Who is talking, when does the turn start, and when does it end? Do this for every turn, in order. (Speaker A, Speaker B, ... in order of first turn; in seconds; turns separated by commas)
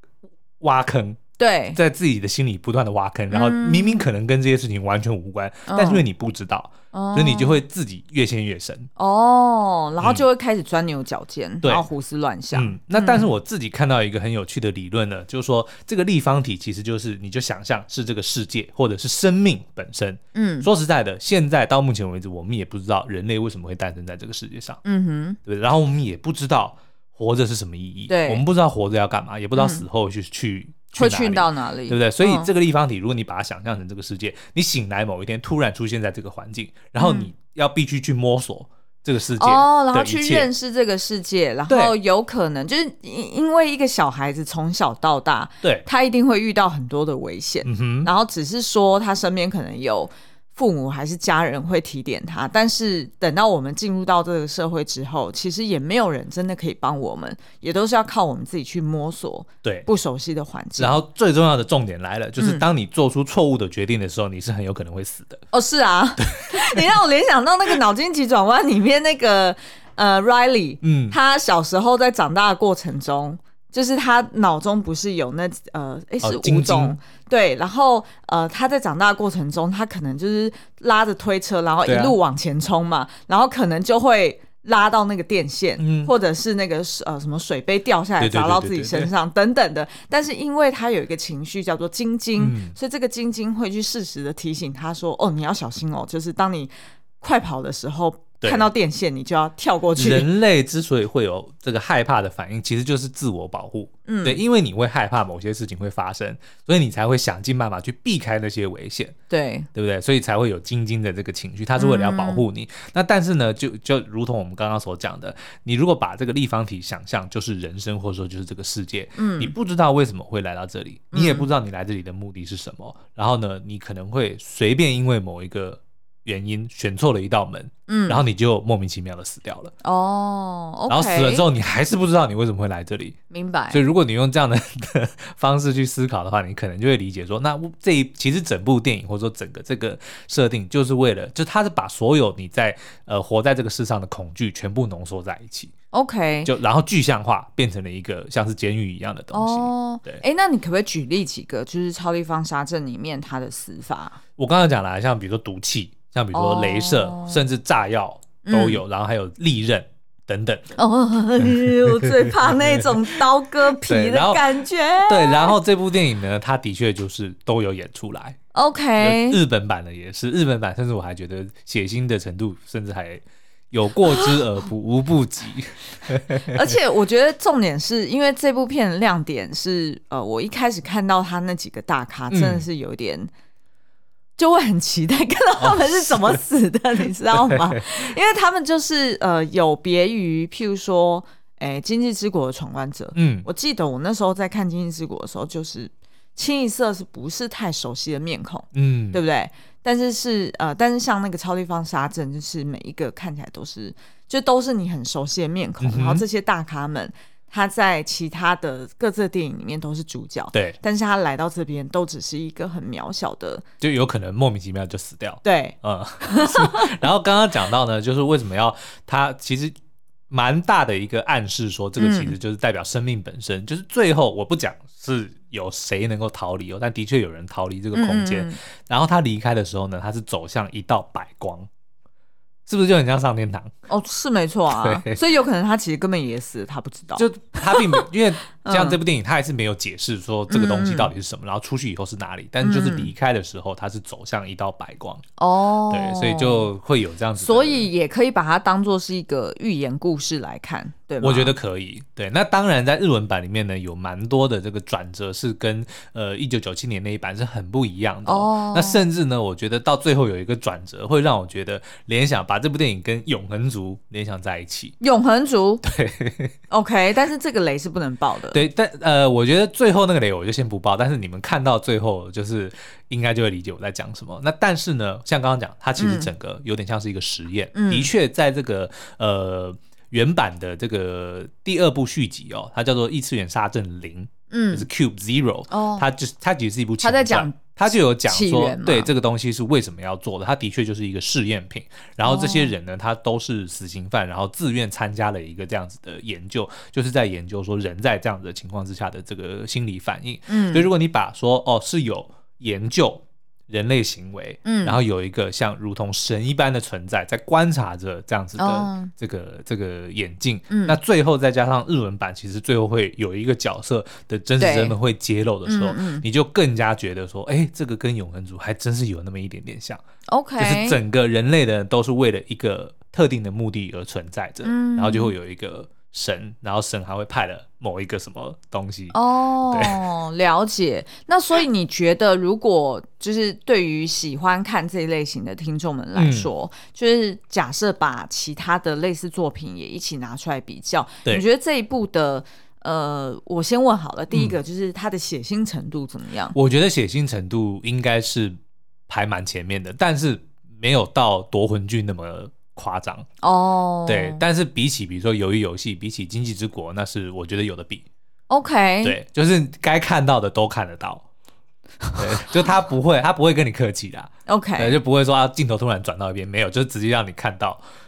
Speaker A: 0.6-1.2, Speaker B: 1.4-1.8, Speaker A: 1.8-8.9, Speaker B: 3.3-4.1, Speaker B: 5.7-6.0, Speaker B: 6.9-7.6, Speaker B: 9.0-13.3, Speaker A: 12.5-24.8, Speaker B: 20.3-20.7, Speaker B: 24.8-25.4, Speaker A: 25.4-40.5, Speaker B: 28.1-28.4, Speaker B: 29.5-29.8, Speaker B: 30.9-32.5, Speaker B: 37.0-37.3, Speaker B: 39.4-61.0, Speaker A: 41.7-41.9, Speaker A: 47.6-48.1, Speaker A: 60.8-65.4, Speaker B: 62.4-62.6, Speaker B: 65.5-100.3, Speaker A: 66.2-66.9, Speaker A: 70.8-71.2, Speaker A: 76.2-77.0, Speaker A: 81.8-82.2, Speaker A: 85.8-86.1, Speaker A: 88.2-89.1, Speaker A: 92.4-92.8, Speaker A: 98.4-98.7, Speaker A: 100.0-109.1, Speaker B: 104.1-104.4, Speaker B: 109.3-109.7, Speaker A: 109.7-129.7, Speaker B: 111.8-112.4, Speaker B: 119.2-119.5, Speaker B: 121.1-121.5, Speaker B: 127.9-128.2, Speaker B: 129.8-131.4, Speaker A: 130.9-133.2, Speaker B: 133.3-133.8, Speaker A: 133.7-145.7, Speaker B: 145.9-146.5, Speaker A: 146.4-150.2, Speaker B: 149.3-154.2, Speaker A: 154.4-160.8, Speaker B: 156.3-157.4, Speaker B: 158.4-158.8, Speaker B: 160.8-165.5, Speaker A: 161.4-163.0, Speaker A: 163.8-168.4, Speaker B: 168.5-169.4, Speaker A: 169.0-176.7, Speaker B: 176.4-183.3, Speaker A: 182.3-182.7, Speaker B: 184.4-213.6, Speaker A: 185.6-186.4, Speaker A: 187.3-187.8, Speaker A: 193.1-193.5, Speaker A: 198.7-199.2, Speaker A: 205.8-206.2, Speaker A: 213.8-219.8, Speaker B: 215.4-216.9, Speaker A: 220.3-231.7, Speaker B: 222.0-222.3, Speaker B: 227.9-228.6, Speaker A: 232.7-233.7, Speaker B: 233.9-238.1, Speaker A: 234.7-235.2, Speaker A: 237.2-245.2, Speaker B: 238.6-239.0, Speaker B: 240.5-241.1, Speaker B: 242.6-243.1, Speaker B: 245.4-246.7, Speaker A: 245.9-247.9, Speaker B: 247.4-251.5, Speaker A: 251.2-264.9, Speaker B: 258.2-259.0, Speaker B: 265.0-265.8, Speaker A: 265.8-266.5, Speaker B: 266.7-268.6, Speaker A: 268.5-320.0, Speaker B: 276.0-276.3, Speaker B: 277.8-278.1, Speaker B: 284.5-284.9, Speaker B: 285.7-286.1, Speaker B: 287.0-287.6, Speaker B: 288.2-289.1, Speaker B: 292.2-292.7, Speaker B: 300.5-300.9, Speaker B: 304.6-305.0, Speaker B: 308.6-309.1, Speaker B: 310.7-311.0, Speaker B: 314.6-314.9, Speaker B: 315.6-316.2, Speaker B: 320.3-321.0, Speaker A: 320.6-329.1, Speaker B: 324.6-325.3, Speaker B: 329.1-346.5, Speaker A: 329.7-330.0, Speaker A: 336.1-336.5, Speaker A: 346.5-348.6, Speaker A: 349.1-353.2, Speaker B: 353.4-354.4, Speaker A: 354.1-358.0, Speaker B: 358.5-359.2, Speaker A: 359.0-361.2, Speaker B: 362.0-362.5, Speaker A: 362.1-367.8, Speaker B: 364.5-365.0